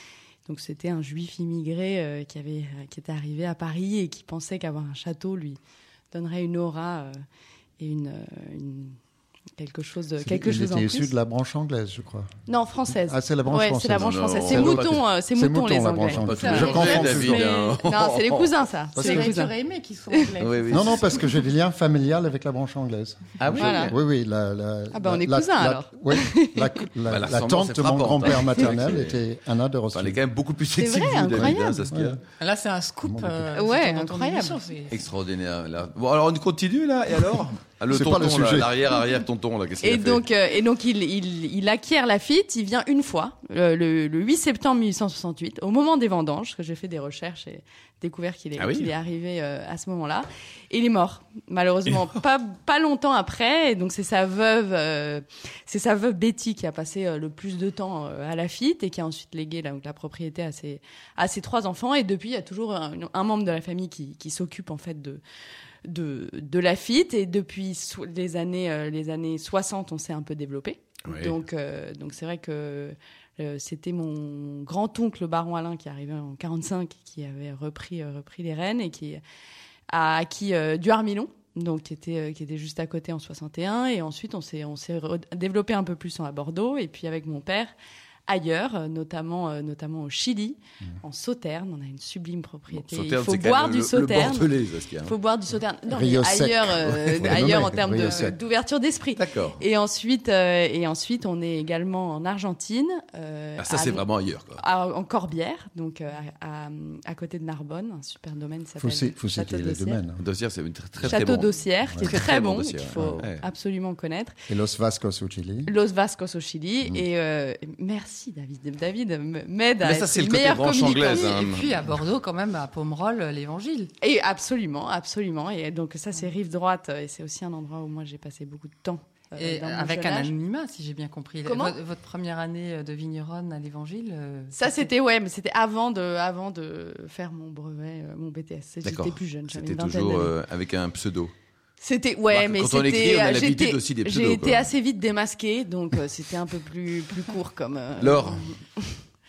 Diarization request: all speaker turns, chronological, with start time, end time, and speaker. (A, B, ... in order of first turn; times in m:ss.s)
0:00.5-0:05.6 A
0:06.1-0:07.1 A
0:07.8-0:09.0 A
0:09.6-0:11.1 A
0:10.2-0:12.3 B
0:12.5-0:19.5 A
0:13.1-0:17.4 B
0:14.0-0:14.8 C
0:16.2-0:18.5 C
0:16.3-0:16.6 D
0:19.0-0:19.4 B
0:19.0-0:21.2 D
0:20.1-0:20.4 A
0:20.4-0:21.2 C
0:20.7-0:30.2 B
0:23.4-0:24.0 C
0:23.5-0:23.9 A
0:24.9-0:26.9 A
0:27.1-0:29.2 C
0:29.9-0:32.2 C
0:30.8-0:31.8 A
0:31.3-0:32.2 B
0:32.4-0:35.0 D
0:33.0-0:33.5 B
0:33.6-0:34.6 A
0:34.9-0:40.2 C
0:37.9-0:38.7 B
0:39.8-1:05.2 A
0:48.6-0:48.9 C
1:05.9-1:19.2 A
1:11.0-1:11.3 C
1:19.9-1:27.7 A
1:28.3-1:50.0 A
1:32.7-1:35.2 C
1:35.9-1:38.4 B
1:39.2-1:39.6 C
1:43.6-1:44.6 C
1:48.8-1:50.2 B
1:50.2-1:53.5 C
1:51.0-1:52.1 B
1:51.0-1:54.4 A
1:53.0-1:53.2 B
1:54.5-1:55.7 B
1:55.7-2:01.5 A
1:59.8-2:01.8 C
2:00.9-2:03.9 D
2:04.0-2:10.4 A
2:09.4-2:14.9 D
2:11.4-2:11.8 A
2:14.5-2:20.3 A
2:18.8-2:21.3 C
2:21.8-2:29.0 A
2:22.3-2:24.7 C
2:28.0-2:28.4 C